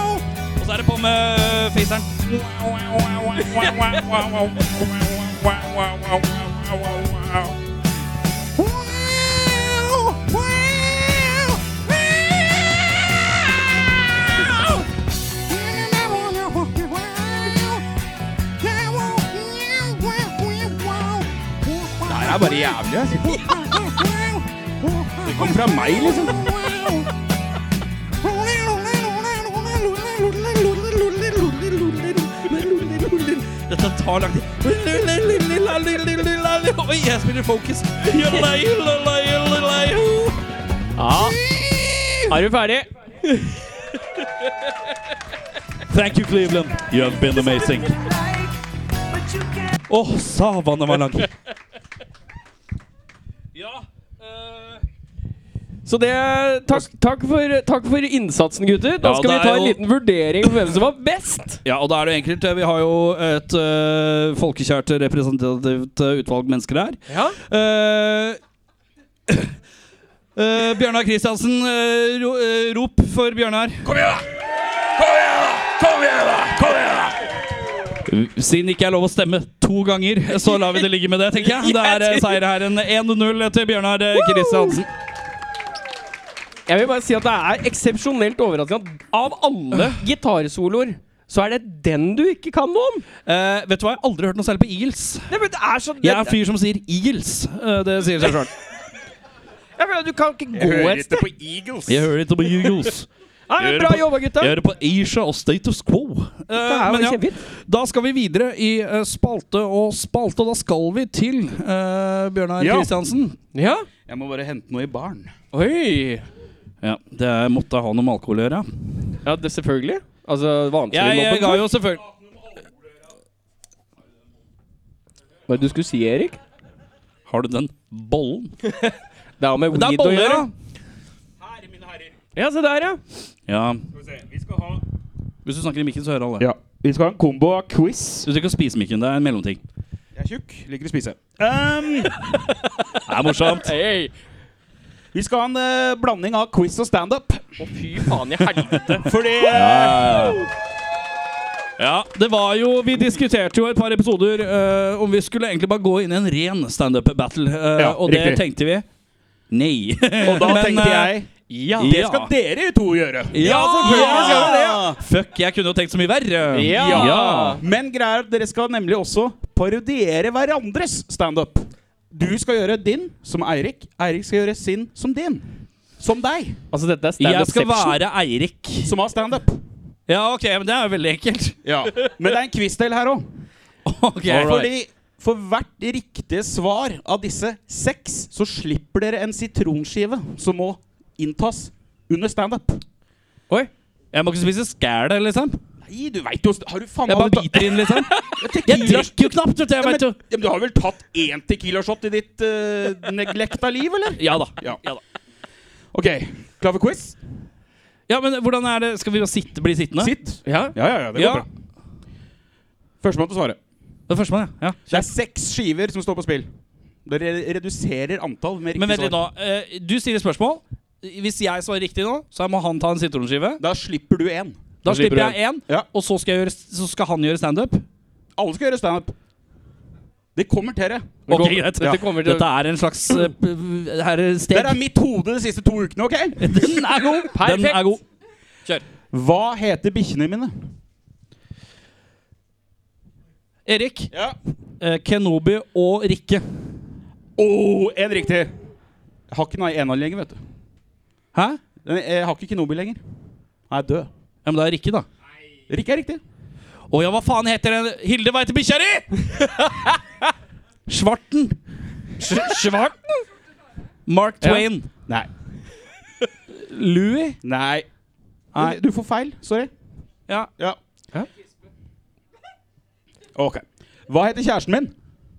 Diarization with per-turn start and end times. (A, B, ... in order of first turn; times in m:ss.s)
0:00.6-0:07.5 A
0:22.0-0:23.6 B
0:25.2-0:27.0 B
0:30.1-0:40.4 A
0:41.0-0:41.4 C
0:41.4-0:42.3 A
0:42.3-0:43.9 C
0:45.9-0:48.0 A
0:47.1-0:48.6 C
0:49.1-0:49.8 C
0:49.9-0:51.3 A
0:53.6-0:54.8 A
0:55.9-1:01.6 C
0:59.0-0:59.8 A
1:01.6-1:08.4 A
1:07.1-1:07.4 C
1:10.4-1:13.9 A
1:13.9-1:14.2 B
1:15.0-1:17.2 B
1:18.1-1:24.9 A
1:20.4-1:20.8 C
1:21.4-1:22.4 C
1:24.2-1:24.8 C
1:26.7-1:33.1 C
1:33.3-1:35.3 A
1:35.3-1:36.4 C
1:36.0-1:38.5 A
1:39.8-1:41.3 C
1:40.5-1:42.1 B
1:41.9-1:53.4 A
1:43.5-1:44.6 C
1:46.5-1:47.4 C
1:52.6-1:52.9 B
1:53.5-1:53.9 C
1:54.1-1:55.3 B
1:55.5-1:56.3 C
1:56.8-1:58.9 A
1:59.2-2:01.6 C
2:00.9-2:02.1 A
2:05.5-2:06.4 C
2:07.3-2:08.6 A
2:08.7-2:10.5 C
2:09.7-2:10.5 A
2:11.4-2:12.1 B
2:12.4-2:13.0 C
2:13.5-2:13.8 A
2:14.0-2:14.8 B
2:15.4-2:16.5 A
2:16.4-2:18.3 B
2:18.2-2:19.6 A
2:20.2-2:22.2 B
2:23.0-2:23.7 A
2:23.4-2:24.1 C
2:25.1-2:27.6 B
2:27.6-2:29.5 C
2:28.5-2:30.4 A
2:29.0-2:30.3 B
2:31.8-2:38.8 A
2:37.8-2:38.4 B
2:39.5-2:41.1 A
2:40.2-2:45.0 B
2:41.5-2:41.9 C
2:41.8-2:42.3 A
2:43.3-2:44.9 C
2:43.4-2:47.6 A
2:46.5-2:47.6 C
2:46.7-2:55.5 B
2:56.0-2:56.6 B
2:56.7-2:58.0 C
2:57.2-2:58.9 A
2:58.8-2:59.6 B
3:00.1-3:01.6 A
3:01.6-3:03.3 B
3:03.9-3:04.7 A
3:04.3-3:12.8 B
3:14.1-3:15.6 A
3:15.8-3:17.9 B
3:17.1-3:20.2 A
3:18.1-3:18.4 C
3:18.4-3:24.8 B
3:24.2-3:25.0 A
3:25.9-3:27.2 B
3:28.1-3:30.1 A
3:30.0-3:31.5 B
3:30.5-3:30.8 C
3:31.2-3:31.5 A
3:33.0-3:33.6 B
3:34.1-3:35.1 A
3:34.9-3:36.5 B
3:37.1-3:39.2 B
3:38.8-3:43.6 A
3:43.6-3:44.6 B
3:44.8-3:47.8 A
3:44.9-3:45.4 C
3:48.4-3:49.1 B
3:50.4-3:51.1 B
3:51.3-3:52.5 C
3:51.3-3:54.8 A
3:54.5-3:56.4 B
3:56.4-3:58.0 A
3:57.2-3:58.0 C
3:59.1-4:00.5 B
4:03.7-4:04.1 A
4:04.1-4:04.4 B
4:04.8-4:06.4 A
4:07.4-4:08.5 B
4:09.3-4:10.4 B
4:11.3-4:11.6 A
4:11.8-4:13.0 B
4:13.7-4:14.1 B
4:14.4-4:15.1 A
4:15.7-4:16.2 B
4:16.9-4:19.3 A
4:20.9-4:21.6 A
4:22.2-4:23.1 C
4:24.1-4:24.9 A
4:24.4-4:24.7 C
4:26.5-4:27.4 A
4:27.4-4:27.9 B
4:28.6-4:29.7 B
4:33.4-4:34.9 B